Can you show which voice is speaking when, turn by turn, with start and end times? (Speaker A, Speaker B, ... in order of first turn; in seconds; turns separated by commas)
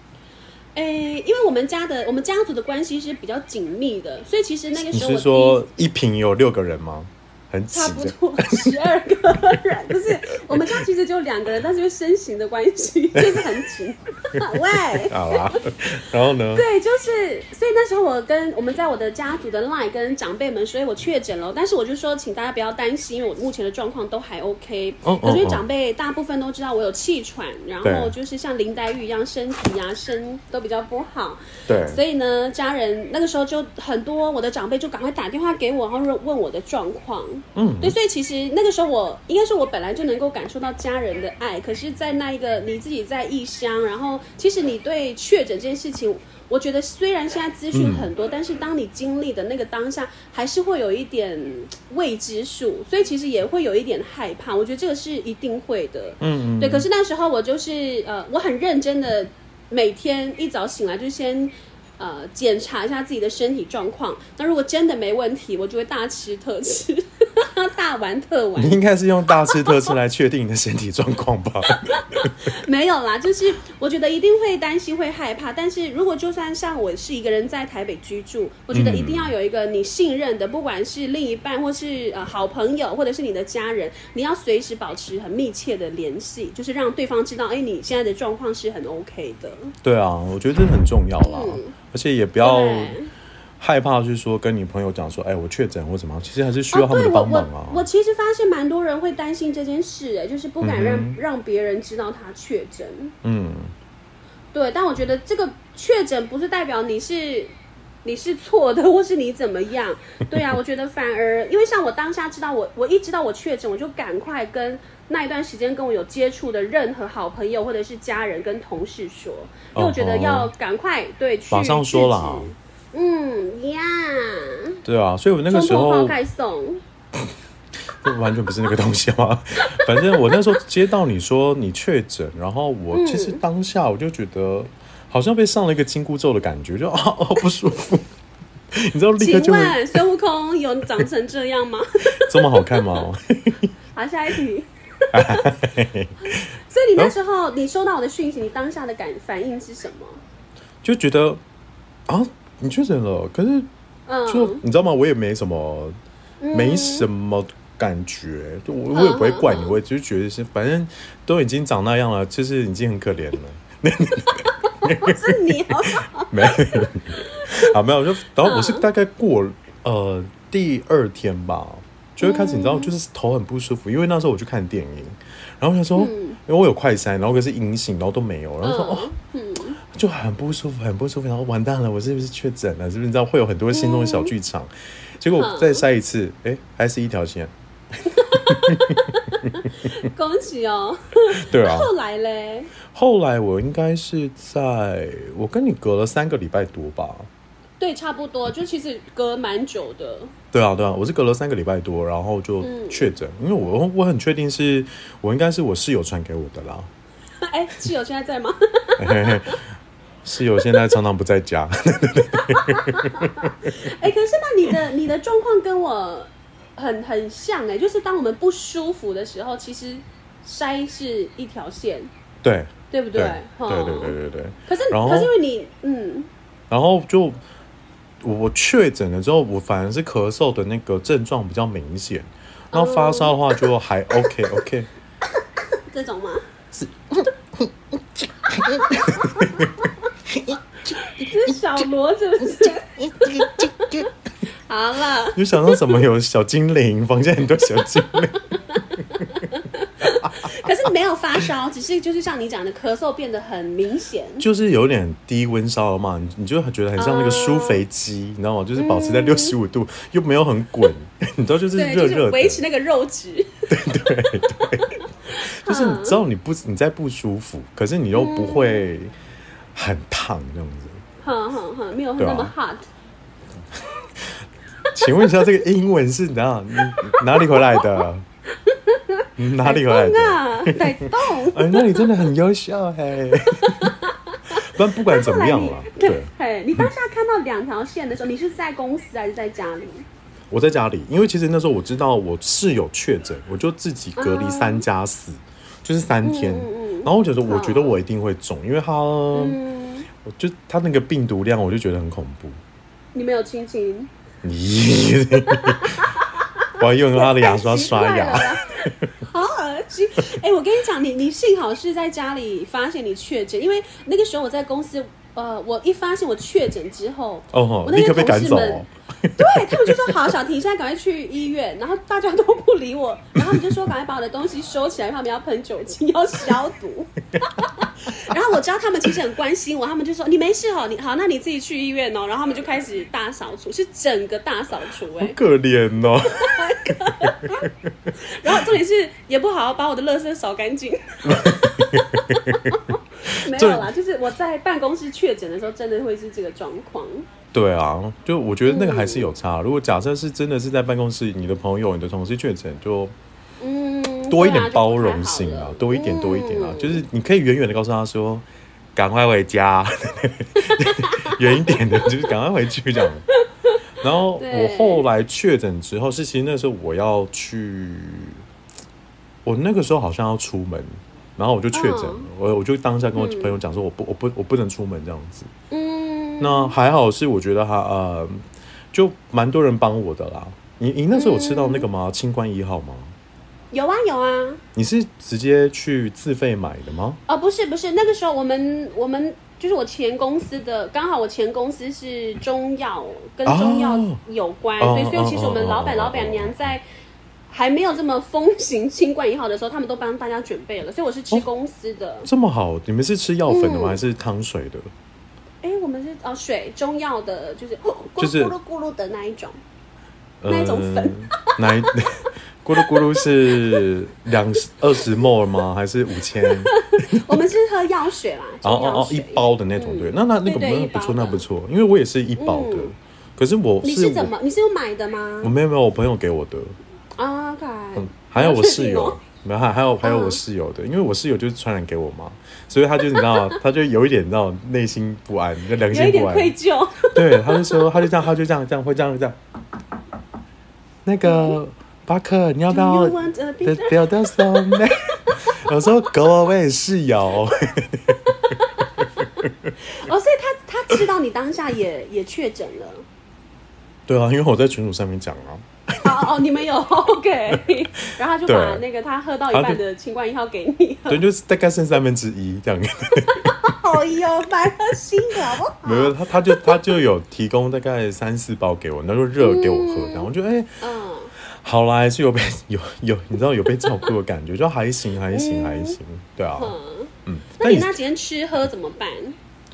Speaker A: 0.8-5.6, Speaker B: 4.9-8.7, Speaker A: 7.7-15.5, Speaker B: 10.5-10.8, Speaker B: 13.1-13.5, Speaker B: 14.9-16.6, Speaker A: 16.5-68.8, Speaker B: 25.0-25.6, Speaker B: 27.8-28.1, Speaker B: 31.7-32.0, Speaker B: 37.5-38.0, Speaker B: 47.7-48.1, Speaker B: 56.2-56.9, Speaker B: 68.5-72.3, Speaker A: 69.4-69.9, Speaker A: 71.8-89.7, Speaker B: 78.7-79.3, Speaker B: 89.8-93.0, Speaker A: 91.2-91.7, Speaker A: 92.4-93.1, Speaker B: 93.6-97.8, Speaker A: 96.7-103.1, Speaker B: 100.6-101.2, Speaker B: 103.2-103.7, Speaker A: 104.5-124.8, Speaker B: 119.7-120.5, Speaker B: 121.5-122.5, Speaker B: 124.8-126.2, Speaker A: 125.5-126.8, Speaker B: 128.0-138.1, Speaker A: 132.9-133.4, Speaker B: 138.7-139.8, Speaker A: 139.2-143.0, Speaker B: 142.2-143.7, Speaker A: 143.9-145.5, Speaker B: 145.1-146.3, Speaker A: 146.2-150.2, Speaker B: 150.8-151.4, Speaker B: 152.1-153.7, Speaker A: 154.1-154.6, Speaker B: 154.3-156.0, Speaker A: 156.4-157.1, Speaker B: 156.5-165.7, Speaker A: 158.9-159.8, Speaker A: 164.8-167.7, Speaker B: 166.3-179.1, Speaker A: 168.4-168.8, Speaker A: 172.2-172.9, Speaker A: 175.9-176.4, Speaker A: 178.6-179.8, Speaker B: 179.9-187.5, Speaker A: 183.7-184.3, Speaker A: 185.3-185.8, Speaker B: 188.2-189.0, Speaker A: 188.2-192.7, Speaker B: 191.3-191.9, Speaker B: 192.9-197.3, Speaker A: 197.8-200.3, Speaker B: 200.5-206.9, Speaker A: 202.6-203.1, Speaker A: 207.4-209.6, Speaker B: 209.0-209.6, Speaker B: 210.2-213.7, Speaker A: 212.4-222.1, Speaker B: 222.4-225.3, Speaker A: 222.9-224.1, Speaker A: 224.7-226.3, Speaker B: 226.7-227.4, Speaker B: 228.2-234.9, Speaker A: 232.7-233.4, Speaker A: 235.7-236.4, Speaker B: 236.7-241.6, Speaker A: 238.9-239.7, Speaker A: 241.0-244.1, Speaker B: 242.6-244.1, Speaker A: 244.7-245.9, Speaker B: 245.3-248.4, Speaker A: 248.3-254.5, Speaker B: 254.4-262.6, Speaker A: 257.0-257.8, Speaker A: 258.8-259.5, Speaker A: 261.7-263.7, Speaker B: 263.7-269.1, Speaker A: 264.4-266.2, Speaker A: 268.1-268.8, Speaker B: 269.7-271.0, Speaker A: 271.2-272.9, Speaker B: 272.2-272.5, Speaker B: 273.7-274.4, Speaker B: 274.9-278.2, Speaker A: 276.9-278.0, Speaker A: 278.6-282.1, Speaker B: 279.4-283.9, Speaker A: 283.6-290.1, Speaker B: 284.5-286.9, Speaker B: 290.5-299.6, Speaker A: 294.2-294.8, Speaker A: 296.2-297.9, Speaker A: 299.3-300.1, Speaker B: 300.2-302.6, Speaker A: 303.1-304.1, Speaker B: 304.4-306.1, Speaker A: 305.5-318.8, Speaker B: 306.8-309.1, Speaker B: 317.5-320.2, Speaker A: 319.4-335.4, Speaker B: 323.4-323.7, Speaker B: 335.2-338.5, Speaker A: 336.3-337.7, Speaker A: 338.2-347.3, Speaker B: 341.2-342.8, Speaker B: 343.5-343.9, Speaker B: 347.5-353.1, Speaker A: 348.6-349.3, Speaker A: 353.6-357.0, Speaker B: 354.3-363.2, Speaker A: 360.8-362.2, Speaker B: 364.0-368.4, Speaker A: 364.4-365.0, Speaker B: 369.4-375.5, Speaker A: 371.7-372.3, Speaker A: 373.1-373.6, Speaker A: 375.7-376.8, Speaker B: 376.4-383.1, Speaker A: 381.1-381.9, Speaker A: 383.7-384.6, Speaker B: 384.7-387.2, Speaker A: 387.3-396.8, Speaker B: 393.4-394.2, Speaker B: 394.8-396.8, Speaker A: 397.5-402.3, Speaker B: 402.2-404.9, Speaker A: 403.5-404.0, Speaker A: 405.6-409.6, Speaker B: 408.2-408.5, Speaker B: 410.4-417.4, Speaker A: 410.5-411.9, Speaker A: 412.8-413.8, Speaker A: 416.4-421.4, Speaker B: 418.6-424.3, Speaker A: 422.4-422.9, Speaker A: 423.8-425.5, Speaker B: 425.4-426.8, Speaker A: 427.1-429.2, Speaker B: 427.9-436.5, Speaker A: 430.0-430.4, Speaker A: 433.1-433.6, Speaker A: 435.9-438.0, Speaker B: 437.1-439.4, Speaker B: 441.0-448.5, Speaker A: 441.2-441.6, Speaker A: 442.7-444.8, Speaker B: 449.4-449.7, Speaker A: 449.8-453.0, Speaker B: 454.1-456.1, Speaker A: 456.0-461.2, Speaker B: 458.4-458.8, Speaker B: 459.5-459.8, Speaker B: 461.1-463.7, Speaker A: 463.6-466.8, Speaker B: 465.8-470.7, Speaker A: 469.4-471.3, Speaker B: 471.4-476.7, Speaker A: 475.3-476.0, Speaker A: 476.6-479.4, Speaker B: 477.2-477.9